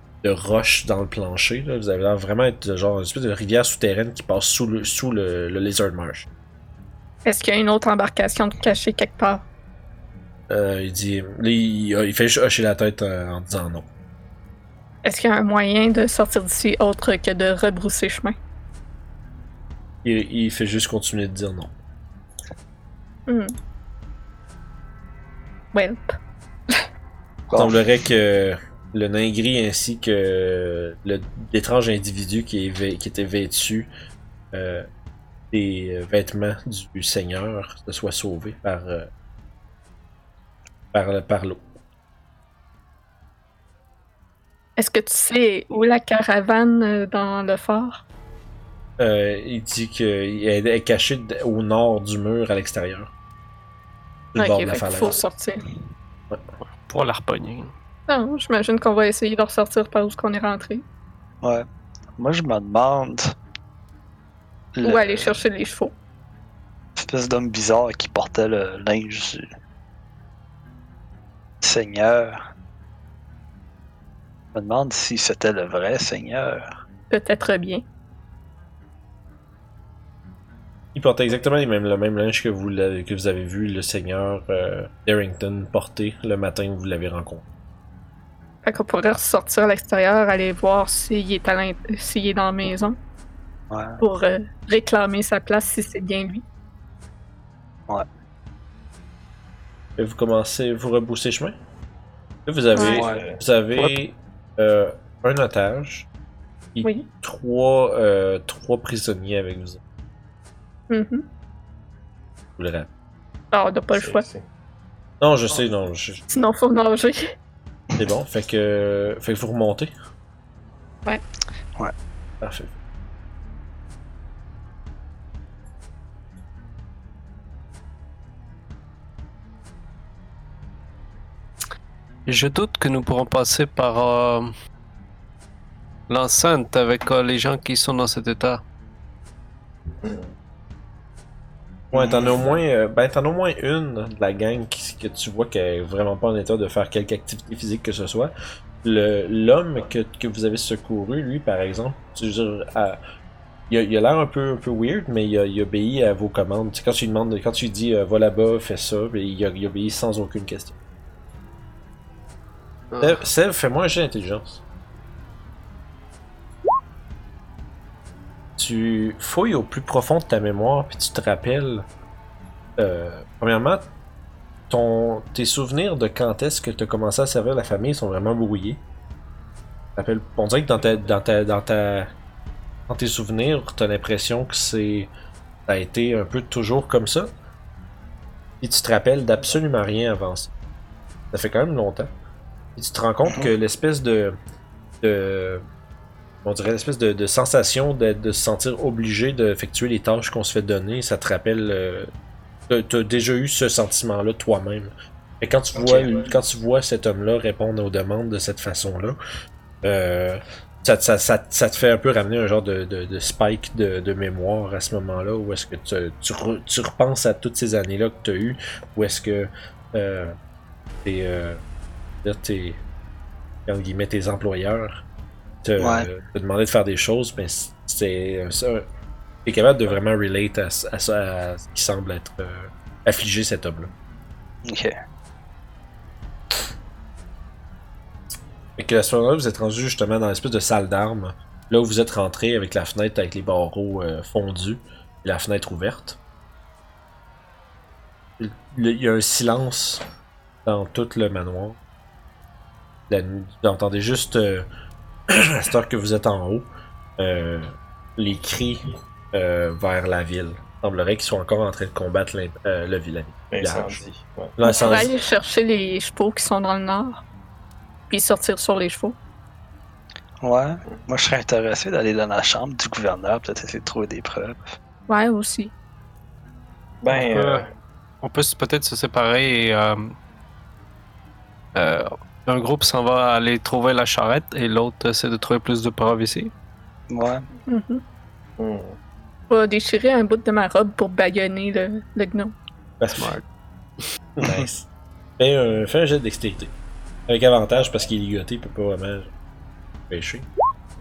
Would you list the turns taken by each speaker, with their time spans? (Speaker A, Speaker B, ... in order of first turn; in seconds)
Speaker A: 0.2-6.3, 10.5-13.9, 20.0-21.7, 27.6-33.9, 34.5-34.9, 35.5-39.1, 40.9-41.6, 49.0-53.1, 54.3-55.2, 80.9-87.4, 100.0-101.5, 102.5-106.1, 106.8-109.8, 112.6-112.9, 115.2-116.2, 118.0-119.9, 122.4-122.8, 141.9-148.3, 148.8-153.0, 153.7-160.8, 163.0-164.6, 168.6-171.8, 172.8-173.8, 174.7-178.8, 180.0-182.1, 182.9-185.1, 185.7-187.3, 188.6-190.5, 191.3-192.1, 192.8-194.4, 195.0-195.6, 196.4-202.1, 202.7-209.2, 209.8-220.4, 221.0-221.6, 222.2-222.8, 223.7-225.0, 225.6-228.8, 229.4-233.9, 238.8-246.2, 248.4-250.0, 250.7-251.8, 253.1-254.7, 255.3-256.7, 257.2-264.0, 264.6-265.1, 293.0-293.4, 294.4-294.9, 295.4-296.7, 297.3-299.3, 300.1-300.5
Speaker B: 7.3-9.4, 15.1-18.4, 23.3-23.5, 25.7-26.1, 44.8-48.0, 54.4-55.6, 58.1-60.8, 64.8-65.9, 77.1-77.8, 88.6-93.0, 94.0-96.4, 102.8-103.0, 110.9-111.2, 113.5-114.2, 116.3-117.3, 264.6-267.2, 268.1-269.2, 275.1-275.7, 287.7-288.0, 289.5-292.5
Speaker C: 27.5-27.8, 61.4-63.3, 64.8-65.4, 67.0-69.5, 71.6-72.4, 74.5-76.6, 93.7-94.0, 102.8-103.2, 205.8-206.1, 225.8-226.1, 234.7-235.0, 270.4-274.8, 287.1-287.5
Speaker D: 56.8-57.7, 103.8-104.0, 132.3-134.5, 136.1-138.6, 162.9-163.2, 277.1-277.7, 278.2-280.2, 281.8-286.5, 293.1-293.4
Speaker E: 102.9-103.4, 113.9-114.5, 140.0-140.3, 263.5-265.1, 277.0-277.7, 288.6-289.0